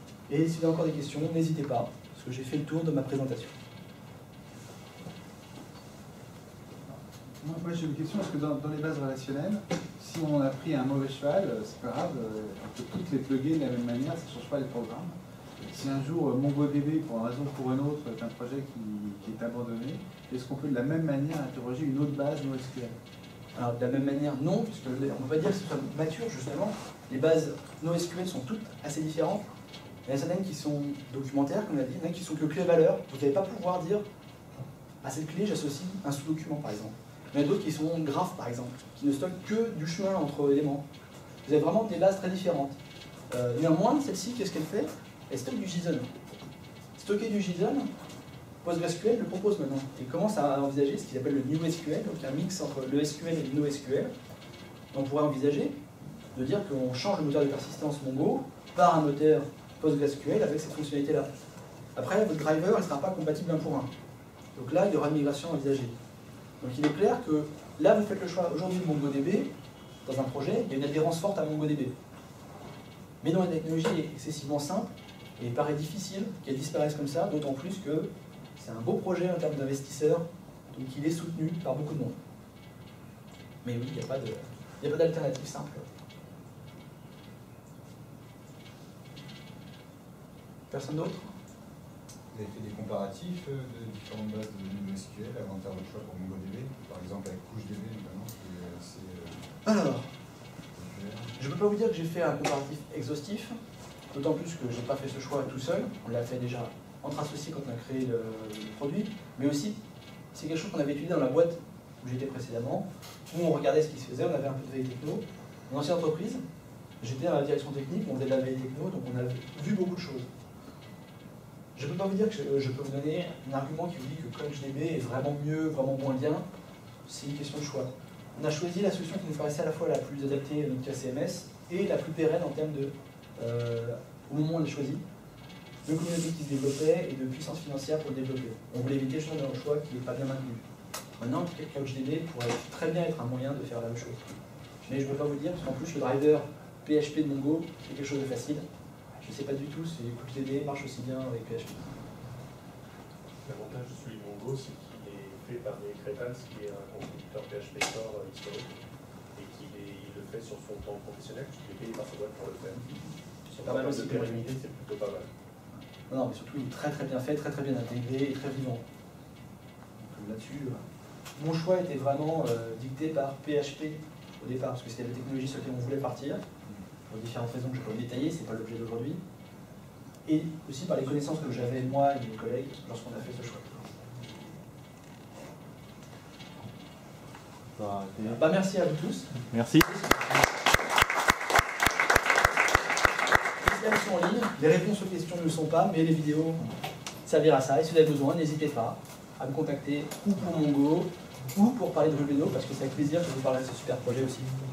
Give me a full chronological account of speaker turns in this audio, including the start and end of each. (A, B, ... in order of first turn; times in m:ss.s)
0:00.3-0:03.6 A
0:06.9-0:15.2 B
0:15.7-0:23.0 B
0:23.6-0:29.5 A
0:30.1-0:34.0 A
0:35.0-0:40.8 A
0:41.4-0:42.8 A
0:43.3-0:46.1 A
0:47.0-0:47.9 A
0:48.6-0:54.1 A
0:54.9-0:55.8 A
0:56.4-1:01.3 A
1:02.0-1:03.9 A
1:04.6-1:05.9 A
1:06.6-1:09.5 A
1:10.0-1:11.9 A
1:13.2-1:22.2 A
1:23.6-1:25.8 A
1:30.7-1:31.3 A
1:32.3-1:39.5 C
1:39.6-1:40.1 A
1:40.7-1:41.3 C
1:41.4-1:43.6 A
1:44.1-1:49.8 A
1:50.3-1:56.4 A
1:57.0-2:00.3 A
2:01.8-2:06.4 A
2:07.1-2:15.0 A
2:15.9-2:20.6 A
2:21.2-2:24.2 A
2:24.8-2:28.6 A
2:29.2-2:31.9 A
2:33.5-2:38.7 D
2:39.4-2:42.9 D
2:43.5-2:44.6 A
2:43.6-2:45.3 D
2:46.1-2:48.8 A
2:50.0-2:50.8 A
2:51.4-2:56.4 A
2:57.1-2:59.2 A
3:00.3-3:03.8 A
3:07.8-3:08.2 D
3:08.2-3:10.3 A
3:13.6-3:16.6 A
3:17.2-3:24.5 A